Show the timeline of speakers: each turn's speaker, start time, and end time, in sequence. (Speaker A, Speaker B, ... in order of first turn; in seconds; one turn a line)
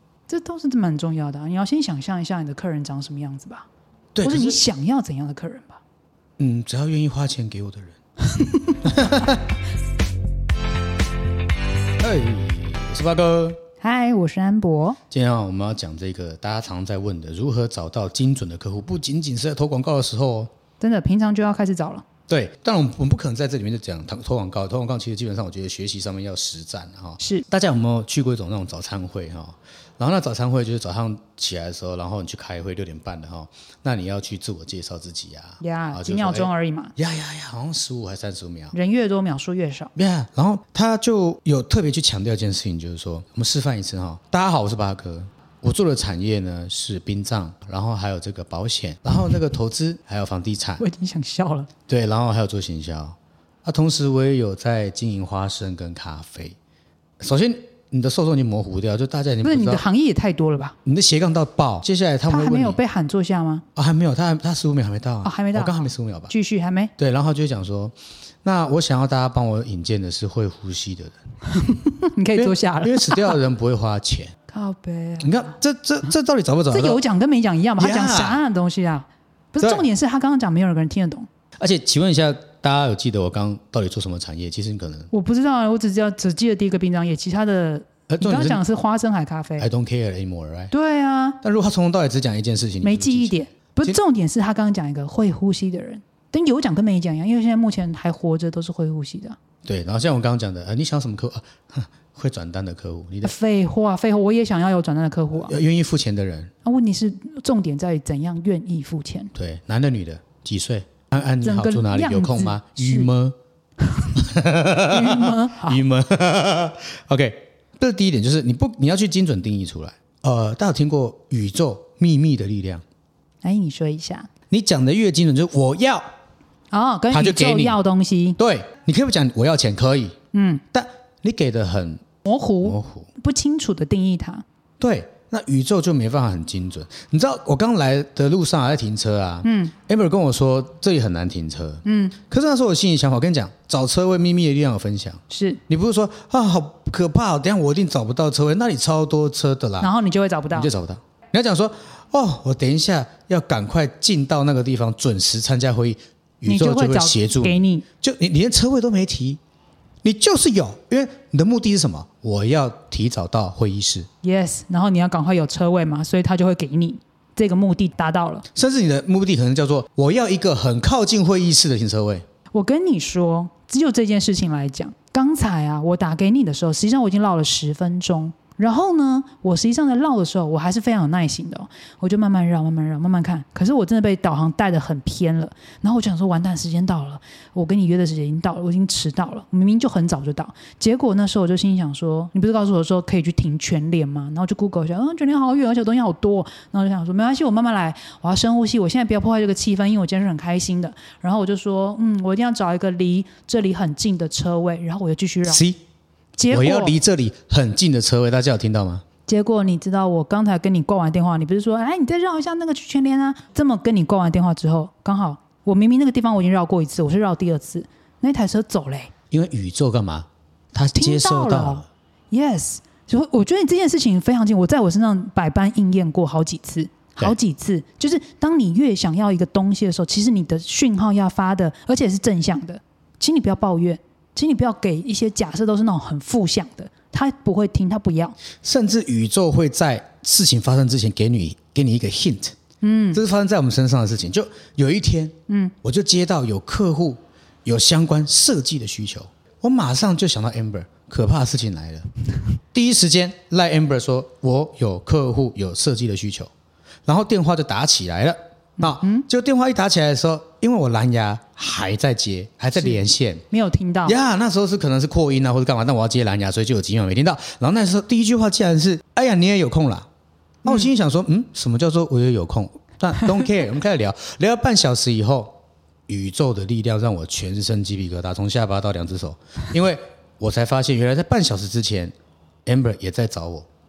Speaker A: 0.3-3.7
Speaker B: 4.1-4.6
Speaker A: 4.2-5.8
Speaker B: 6.4-8.0
Speaker A: 8.2-9.3
Speaker B: 8.8-9.4
Speaker B: 12.0-13.6
Speaker A: 13.8-15.0
Speaker B: 15.1-20.5
Speaker A: 20.8-22.0
Speaker B: 22.3-38.7
Speaker A: 27.2-27.4
Speaker A: 35.6-36.9
Speaker A: 38.7-39.9
Speaker B: 39.9-50.8
Speaker A: 50.8-51.7
Speaker B: 51.9-56.5
Speaker B: 57.2-59.8
Speaker A: 59.4-60.8
Speaker B: 60.8-62.8
Speaker A: 62.3-63.6
Speaker B: 63.7-66.3
Speaker A: 65.2-66.9
Speaker B: 67.0-71.2
Speaker A: 71.5-73.4
Speaker B: 72.3-74.3
Speaker A: 74.5-75.5
Speaker B: 75.2-77.0
Speaker A: 76.7-81.3
Speaker B: 77.8-78.4
Speaker B: 81.6-85.1
Speaker A: 85.1-89.7
Speaker B: 88.1-88.6
Speaker B: 89.6-90.7
Speaker A: 90.7-91.4
Speaker B: 91.4-94.0
Speaker A: 92.8-99.4
Speaker B: 99.6-103.3
Speaker A: 103.2-105.5
Speaker B: 105.4-106.5
Speaker A: 106.6-109.3
Speaker B: 109.3-113.3
Speaker A: 111.4-113.1
Speaker A: 113.8-114.2
Speaker B: 114.2-122.8
Speaker A: 114.9-115.8
Speaker A: 123.4-124.3
Speaker B: 124.5-126.0
Speaker A: 126.7-128.4
Speaker B: 127.1-127.8
Speaker B: 128.4-130.2
Speaker A: 130.3-130.6
Speaker B: 130.7-132.0
Speaker A: 132.2-134.4
Speaker B: 132.6-133.1
Speaker B: 134.8-149.9
Speaker A: 139.4-139.7
Speaker A: 141.8-142.2
Speaker A: 145.3-145.6
Speaker A: 149.8-150.7
Speaker B: 150.5-159.4
Speaker A: 156.4-157.8
Speaker B: 160.0-164.1
Speaker A: 164.2-168.5
Speaker B: 168.5-172.2
Speaker A: 172.5-205.6
Speaker B: 205.4-205.8
Speaker A: 206.4-207.0
Speaker B: 206.5-209.0
Speaker A: 209.3-219.1
Speaker B: 219.3-221.8
Speaker A: 220.9-238.3
Speaker B: 238.6-242.6
Speaker A: 242.8-243.2
Speaker B: 243.1-252.1
Speaker A: 245.5-245.7
Speaker B: 252.7-256.5
Speaker B: 257.1-263.4
Speaker A: 258.8-259.2
Speaker A: 262.7-264.2
Speaker B: 264.0-270.1
Speaker A: 270.6-270.9
Speaker B: 270.6-275.6
Speaker B: 276.1-282.1
Speaker B: 282.6-283.7